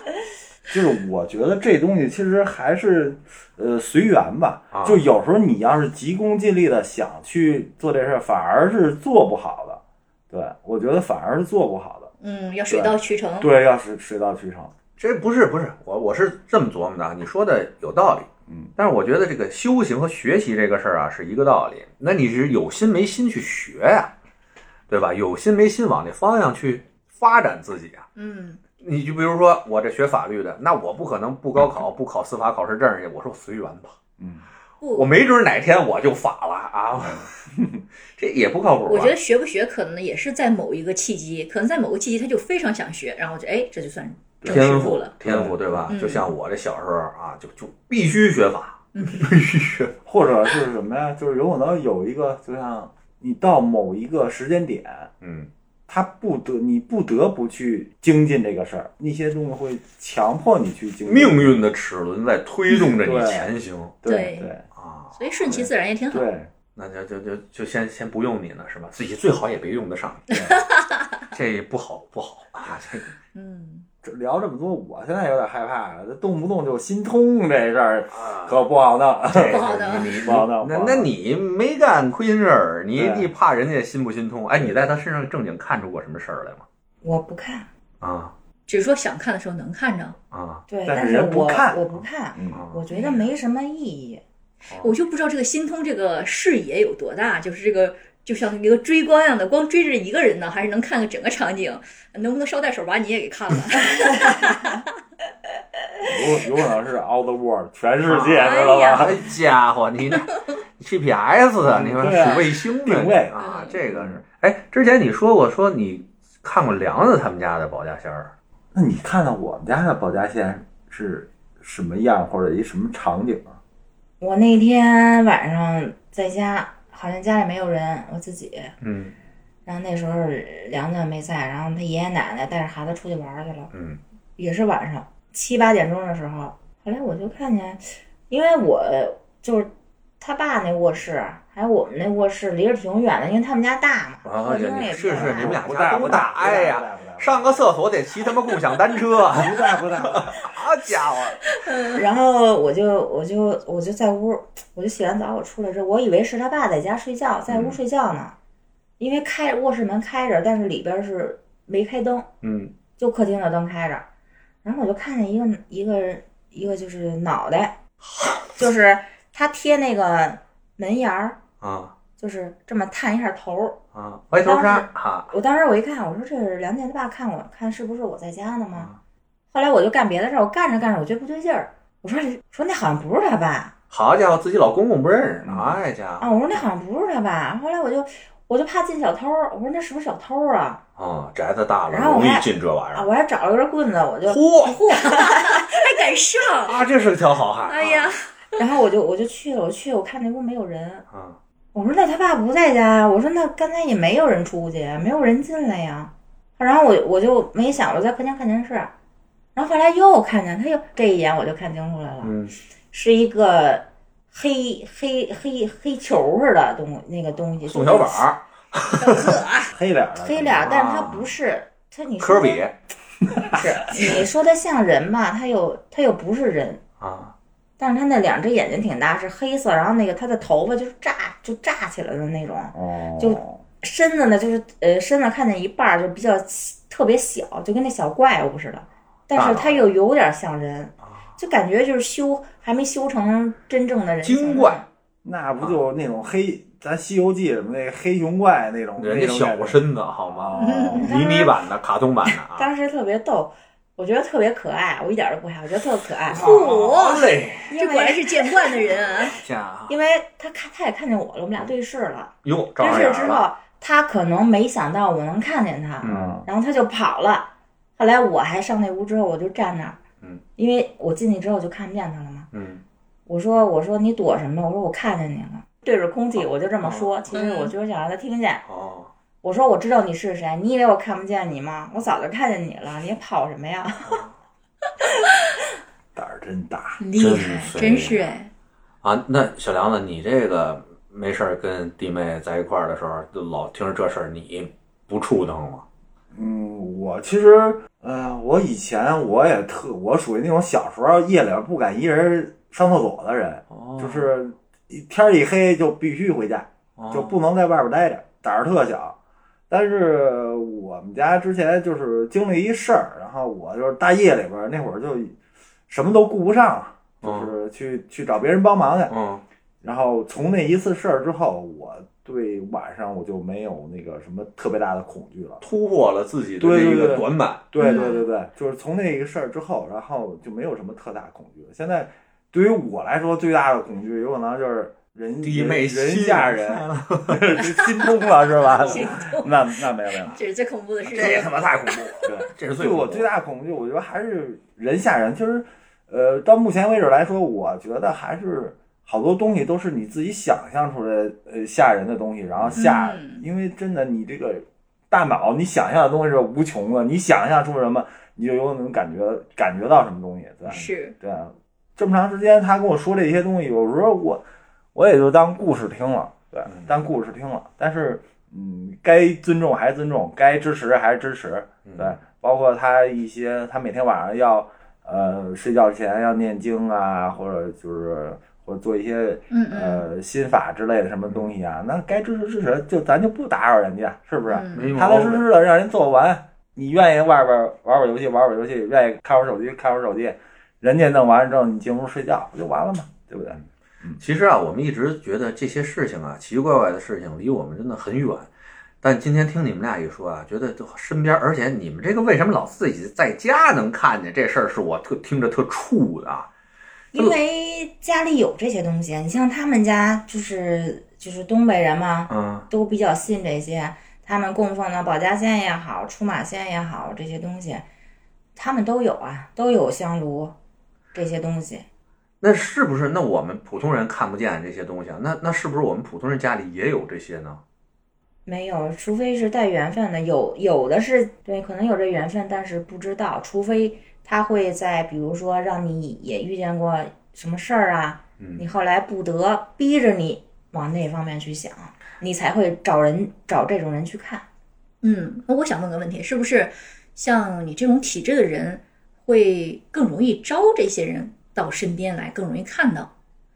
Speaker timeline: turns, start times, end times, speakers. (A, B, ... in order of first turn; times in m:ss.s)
0:00.7-0:12.1 A
0:04.7-0:05.0 B
0:12.2-0:13.5 C
0:12.7-0:14.7 A
0:15.0-0:24.1 B
0:18.5-0:18.7 A
0:24.9-0:28.1 B
0:28.2-0:28.6 C
0:28.8-0:34.0 B
0:34.2-0:34.4 A
0:34.8-0:35.2 C
0:34.9-0:37.3 B
0:37.0-0:37.8 A
0:38.2-0:39.2 B
0:38.9-0:45.1 C
0:44.4-0:45.9 A
0:44.5-0:49.9 B
0:45.9-0:46.3 C
0:49.0-0:49.3 C
0:50.1-0:55.1 A
0:55.2-0:55.5 B
0:55.9-1:01.6 A
1:01.1-1:04.0 B
1:03.0-1:04.6 A
1:04.0-1:04.5 C
1:04.8-1:05.7 B
1:05.2-1:06.3 C
1:05.5-1:06.5 A
1:06.8-1:10.3 B
1:10.3-1:10.6 A
1:10.4-1:11.2 C
1:11.3-1:13.1 B
1:13.3-1:13.9 C
1:14.0-1:21.1 A
1:18.1-1:18.6 B
1:19.3-1:26.6 B
1:19.5-1:20.3 C
1:23.0-1:23.3 A
1:27.0-1:27.7 D
1:28.0-1:28.3 B
1:28.7-1:30.2 C
1:30.3-1:30.6 B
1:30.7-1:34.2 D
1:30.8-1:31.8 A
1:32.4-1:32.6 A
1:32.5-1:32.8 B
1:32.9-1:33.2 C
1:34.7-1:35.0 B
1:34.8-1:44.8 C
1:46.0-1:49.3 A
1:48.0-1:58.3 B
1:48.4-1:49.2 C
1:51.6-1:53.4 A
1:53.4-1:53.8 C
1:53.9-1:54.2 A
1:58.7-2:03.6 A
2:04.2-2:08.7 D
2:08.8-2:09.2 B
2:09.7-2:13.7 D
2:13.7-2:14.0 B
2:14.4-2:19.7 D
2:20.2-2:25.6 D
2:24.2-2:31.4 B
2:25.1-2:27.6 A
2:29.3-2:30.5 A
2:31.5-2:32.0 C
2:31.9-2:38.4 D
2:37.5-2:37.8 B
2:39.0-2:42.3 D
2:42.4-2:42.7 B
2:43.0-2:44.1 D
2:44.6-2:47.8 D
2:48.0-2:48.5 B
2:48.6-2:51.4 D
2:51.6-2:52.0 B
2:52.2-2:53.8 D
2:53.9-2:55.3 B
2:54.4-2:58.9 D
2:59.5-3:03.7 D
3:03.9-3:06.6 B
3:05.4-3:05.8 A
3:06.2-3:10.8 D
3:11.0-3:13.1 B
3:11.9-3:15.7 D
3:14.3-3:14.8 B
3:14.6-3:16.8 C
3:16.6-3:18.2 B
3:17.7-3:18.3 C
3:18.6-3:21.1 D
3:21.1-3:21.4 B
3:21.7-3:28.9 D
3:29.6-3:32.3 D
3:32.2-3:32.5 B
3:32.9-3:38.2 D
3:37.6-3:39.4 B
3:39.0-3:39.7 C
3:39.6-3:40.8 A
3:40.2-3:42.6 D
3:40.6-3:41.3 B
3:42.2-3:42.8 B
3:43.3-3:43.6 A
3:43.5-3:46.8 D
3:47.0-3:47.4 B
3:47.8-4:04.9 D
3:52.7-3:53.6 A
3:59.3-3:59.9 B
4:04.2-4:04.8 B
4:05.2-4:11.1 A
4:09.0-4:12.7 B
4:10.6-4:11.1 C
4:11.0-4:11.6 D
4:12.5-4:16.5 D
4:16.3-4:17.7 B
4:16.3-4:19.4 C
4:17.7-4:18.8 D
4:18.8-4:19.9 B
4:19.9-4:30.0 D
4:22.4-4:23.5 B
4:26.0-4:26.4 B
4:26.0-4:26.5 A
4:30.6-4:32.5 D
4:32.5-4:32.8 B
4:33.3-4:38.6 D
4:36.8-4:37.1 B
4:37.3-4:37.7 C
4:38.7-4:39.1 B
4:39.4-4:44.2 D
4:44.1-4:44.3 B
4:46.2-4:47.0 A
4:47.0-4:48.5 C
4:47.2-4:48.2 B
4:49.0-4:55.8 B
4:56.3-5:09.2 A
5:03.7-5:04.3 B
5:07.0-5:07.4 B
5:09.7-5:15.4 A
5:15.9-5:19.2 A
5:17.2-5:17.5 B
5:19.1-5:19.4 B
5:19.8-5:25.6 A
5:25.6-5:27.6 B
5:26.6-5:40.4 A
5:27.8-5:28.3 C
5:35.4-5:37.7 B
5:37.7-5:39.5 C
5:40.2-5:42.3 C
5:41.0-5:43.3 B
5:42.2-6:04.4 A
5:52.6-5:52.8 B
5:52.8-5:53.4 C
6:00.7-6:01.2 C
6:05.0-6:34.2 A
6:06.7-6:06.9 B
6:11.8-6:12.2 B
6:19.5-6:20.1 C
6:24.5-6:24.9 C
6:24.7-6:25.4 B
6:34.2-6:38.5 B
6:39.0-6:46.5 B
6:47.1-6:57.8 D
6:52.3-6:52.7 B
6:58.6-7:00.6 D
7:01.1-7:01.8 D
7:02.4-7:07.6 B
7:08.5-7:24.5 D
7:25.0-7:33.1 C